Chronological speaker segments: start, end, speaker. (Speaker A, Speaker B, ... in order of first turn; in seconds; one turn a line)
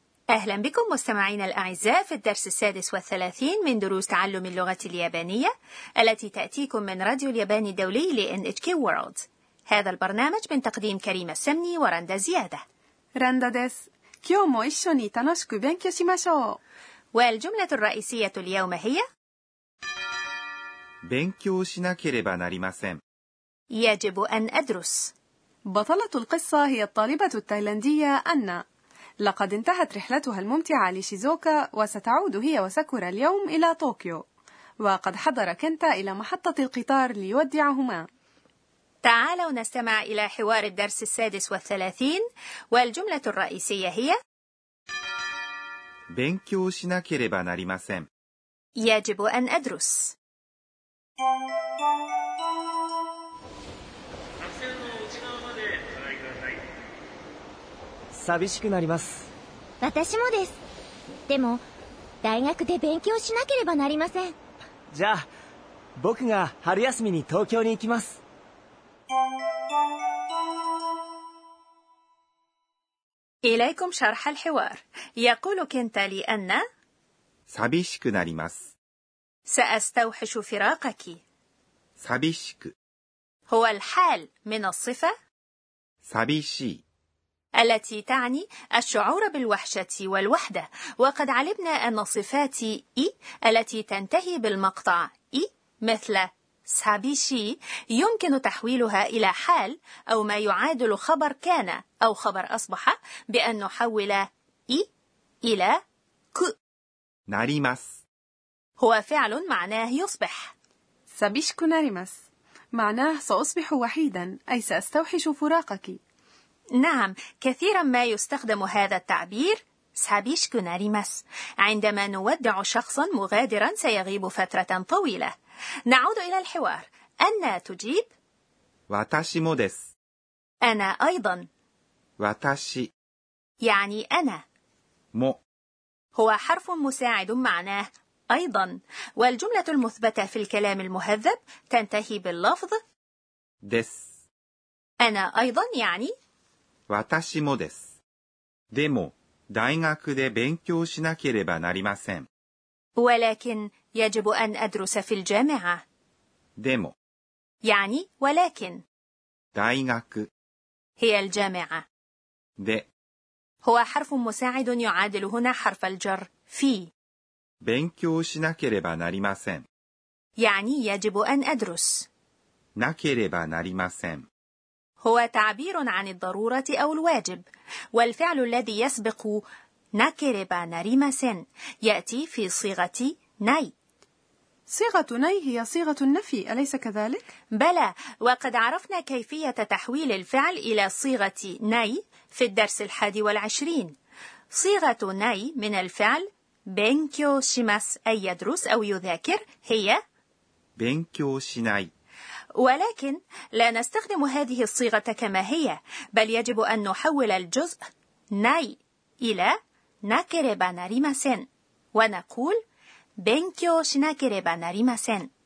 Speaker A: 0.3-12.6
Speaker B: 13.2-16.6
Speaker A: 17.1-19.0
Speaker C: 21.0-23.0
Speaker A: 23.7-25.1
Speaker B: 25.7-28.6
Speaker B: 29.2-34.2
Speaker B: 34.8-38.0
Speaker A: 39.0-44.2
Speaker C: 46.1-48.1
Speaker A: 48.8-50.1
Speaker D: 58.1-59.3
Speaker E: 59.8-60.6
Speaker E: 61.3-61.6
Speaker E: 62.2-64.3
Speaker D: 64.9-65.2
Speaker D: 66.0-68.2
Speaker A: 73.4-76.6
Speaker C: 77.5-78.7
Speaker A: 79.5-81.2
Speaker C: 82.0-82.7
Speaker A: 83.5-85.1
Speaker C: 86.0-86.8
Speaker A: 87.6-104.8
Speaker A: 105.4-105.8
Speaker C: 107.3-108.0
Speaker A: 108.8-110.5
Speaker B: 111.1-112.1
Speaker B: 112.7-116.0
Speaker A: 116.8-125.3
Speaker A: 125.9-128.1
Speaker C: 128.9-129.9
Speaker A: 130.6-131.5
Speaker C: 132.2-132.9
Speaker A: 133.6-134.4
Speaker C: 135.1-135.4
Speaker A: 136.1-142.8
Speaker C: 143.6-144.1
Speaker A: 145.0-146.1
Speaker C: 146.9-147.9
Speaker C: 148.7-152.3
Speaker A: 153.0-155.8
Speaker C: 156.6-156.9
Speaker A: 157.6-158.8
Speaker C: 159.5-160.3
Speaker A: 161.0-161.8
Speaker C: 162.6-162.9
Speaker A: 163.6-166.9
Speaker C: 167.6-169.7
Speaker A: 170.4-172.1
Speaker C: 172.8-174.3
Speaker A: 175.0-179.4
Speaker A: 179.9-183.7
Speaker B: 184.7-187.3
Speaker A: 187.5-193.9
Speaker A: 194.5-200.0
Speaker C: 200.8-201.9
Speaker A: 202.6-207.8
Speaker A: 208.3-209.5
Speaker A: 210.1-212.6
Speaker A: 213.2-215.3